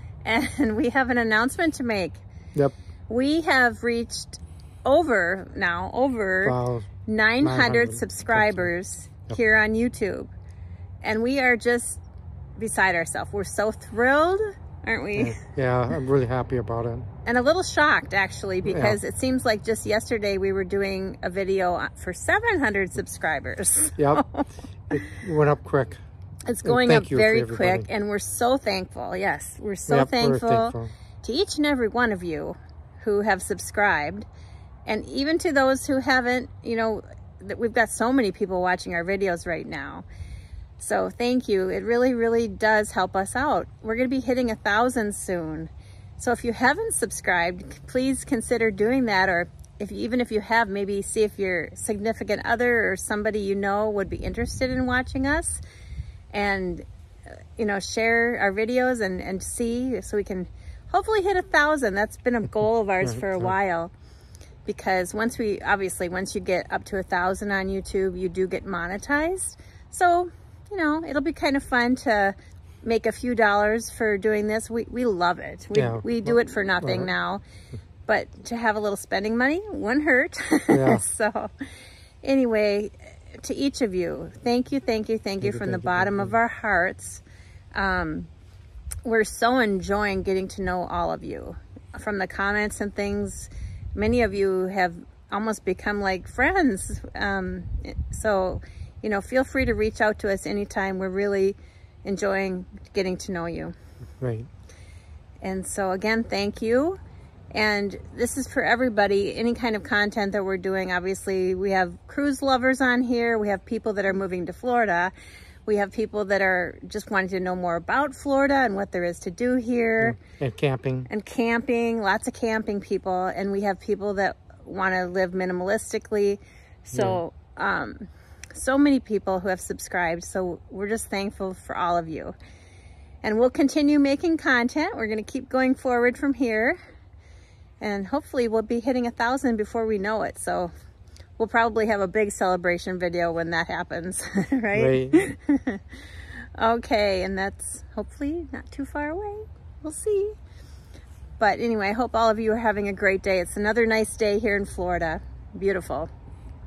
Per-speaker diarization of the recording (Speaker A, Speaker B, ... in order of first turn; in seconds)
Speaker A: 0.2-2.2, 3.1-10.3, 11.0-12.0, 12.6-15.4, 17.2-24.5, 26.5-34.3, 34.9-40.0, 40.8-55.6, 56.3-56.8, 57.6-63.9, 64.7-77.4, 78.1-81.5, 82.2-87.2, 87.7-88.3, 89.0-103.7, 105.4-107.0, 107.5-115.1, 115.7-120.2, 121.1-132.3, 133.2-136.8, 137.8-140.7, 141.4-145.9, 146.6-150.4, 151.4-156.1
Speaker B: 6.4-6.9, 7.4-8.7, 15.2-17.1, 18.6-19.0, 24.9-26.0, 26.6-27.9, 29.9-30.9, 63.1-63.5, 75.7-76.2, 76.8-77.1, 80.7-81.0, 85.4-86.3, 104.2-104.5, 120.0-121.1, 126.9-127.2, 144.7-145.2